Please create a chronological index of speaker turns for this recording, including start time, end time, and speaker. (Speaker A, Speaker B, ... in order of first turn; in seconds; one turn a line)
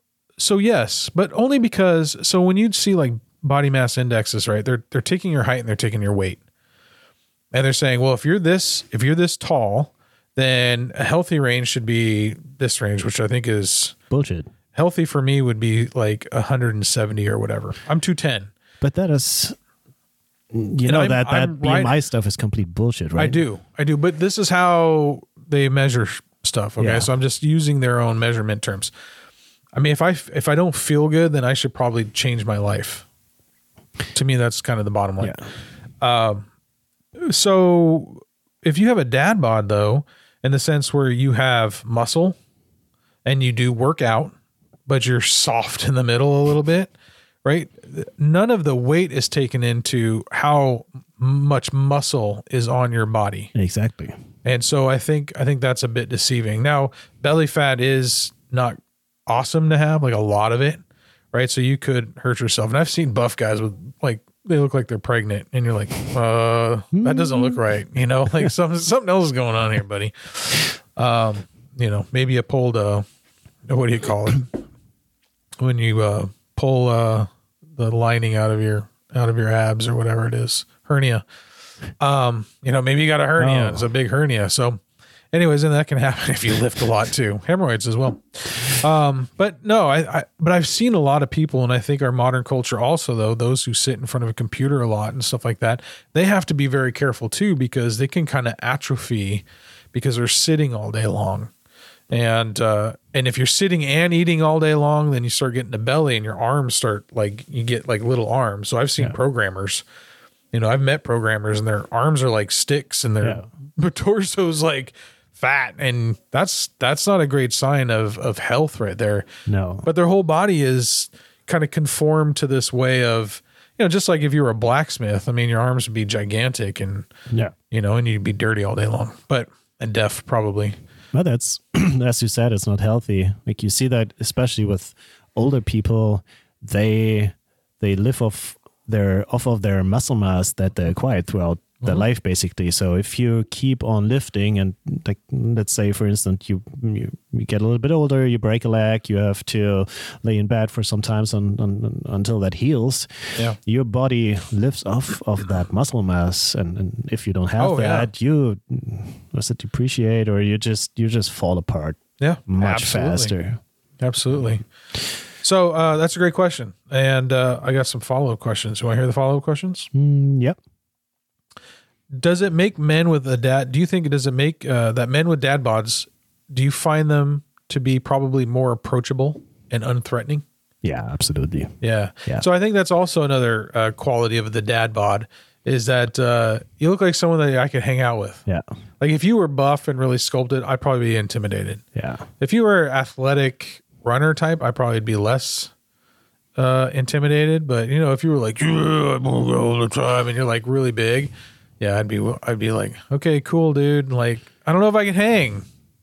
Speaker A: 0.4-6.4
Speaker A: 7.5-13.9
Speaker B: 14.1-14.5
Speaker A: 14.7-18.5
Speaker B: 18.8-19.6
Speaker B: 20.5-23.4
Speaker A: 20.9-22.0
Speaker A: 23.2-28.9
Speaker B: 26.8-27.1
Speaker A: 29.7-33.1
Speaker A: 34.1-35.4
Speaker A: 36.0-36.5
Speaker A: 37.2-42.4
Speaker A: 43.2-44.3
Speaker A: 44.9-46.9
Speaker A: 47.4-53.5
Speaker B: 53.5-54.1
Speaker A: 54.4-60.8
Speaker A: 61.3-73.0
Speaker B: 66.9-67.6
Speaker A: 73.7-74.5
Speaker A: 75.6-81.2
Speaker A: 82.0-84.8
Speaker B: 83.4-83.9
Speaker A: 85.3-101.5
Speaker A: 102.1-109.8
Speaker A: 110.5-119.2
Speaker B: 119.5-119.9
Speaker A: 119.8-127.1
Speaker A: 127.7-130.8
Speaker B: 131.1-153.1
Speaker B: 153.6-163.6
Speaker A: 157.6-158.1
Speaker A: 162.2-163.3
Speaker A: 164.0-164.6
Speaker A: 165.4-169.9
Speaker B: 169.9-170.6
Speaker A: 172.1-180.4
Speaker B: 180.8-182.5
Speaker A: 181.8-188.4
Speaker A: 189.0-191.8
Speaker B: 191.9-192.3
Speaker A: 192.4-195.7
Speaker A: 196.6-205.7